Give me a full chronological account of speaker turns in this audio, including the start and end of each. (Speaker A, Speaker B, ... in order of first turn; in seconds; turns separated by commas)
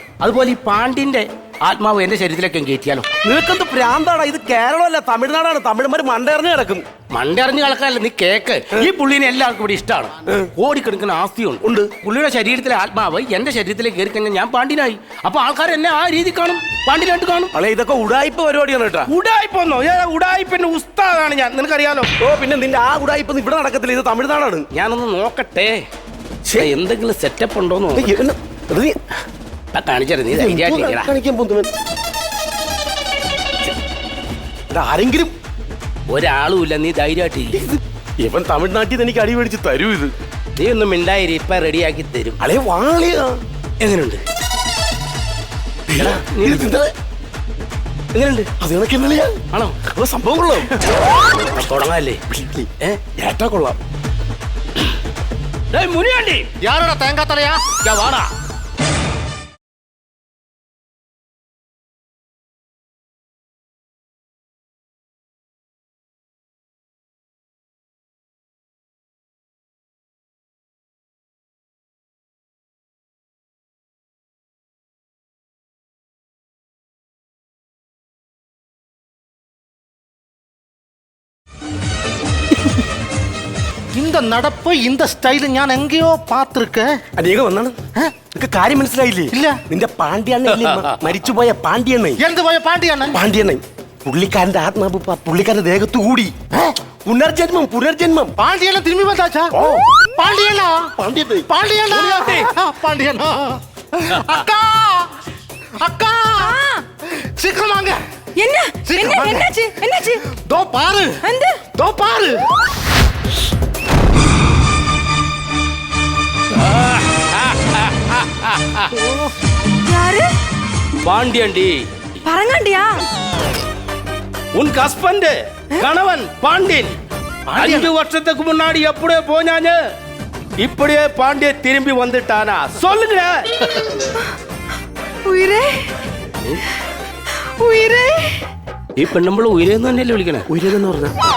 Speaker A: 0.2-3.1, Speaker B: 3.2-6.8, Speaker A: 7.1-17.5, Speaker B: 11.6-11.9, Speaker B: 17.5-19.1, Speaker A: 19.1-22.1, Speaker B: 22.2-24.6, Speaker A: 24.7-25.8, Speaker B: 26.4-26.7, Speaker A: 26.5-28.2, Speaker B: 27.9-29.0, Speaker A: 29.7-31.1, Speaker B: 30.3-31.7, Speaker B: 34.7-35.3, Speaker A: 36.1-37.6, Speaker B: 37.5-40.1, Speaker A: 40.5-42.4, Speaker B: 42.4-43.4, Speaker A: 43.8-44.2, Speaker B: 45.9-46.9, Speaker A: 45.9-46.8, Speaker A: 48.1-48.5, Speaker B: 48.6-50.7, Speaker A: 49.5-49.8, Speaker A: 51.4-52.2, Speaker B: 52.3-53.8, Speaker A: 55.7-56.5, Speaker C: 56.6-57.6, Speaker A: 57.8-58.3, Speaker C: 84.0-86.9, Speaker B: 87.2-87.8, Speaker B: 88.3-92.2, Speaker C: 89.3-89.6, Speaker A: 90.5-91.0, Speaker C: 92.2-93.2, Speaker B: 93.1-96.4, Speaker B: 97.0-98.3, Speaker C: 98.4-99.5, Speaker B: 99.5-99.9, Speaker C: 100.1-100.9, Speaker B: 100.9-101.5, Speaker C: 101.5-105.1, Speaker A: 101.9-102.5, Speaker C: 105.8-106.6, Speaker D: 106.4-106.8, Speaker C: 107.4-108.0, Speaker D: 108.4-110.2, Speaker C: 108.9-109.5, Speaker C: 110.3-111.2, Speaker D: 111.2-111.7, Speaker C: 111.8-112.4, Speaker A: 116.5-118.9, Speaker C: 119.0-119.3, Speaker D: 119.8-120.3, Speaker A: 121.0-121.8, Speaker D: 122.2-122.9, Speaker A: 124.5-127.0, Speaker C: 127.5-127.9, Speaker A: 127.5-129.8, Speaker A: 130.6-133.4, Speaker D: 135.2-135.9, Speaker D: 137.6-138.4, Speaker A: 138.9-140.5, Speaker B: 140.5-141.1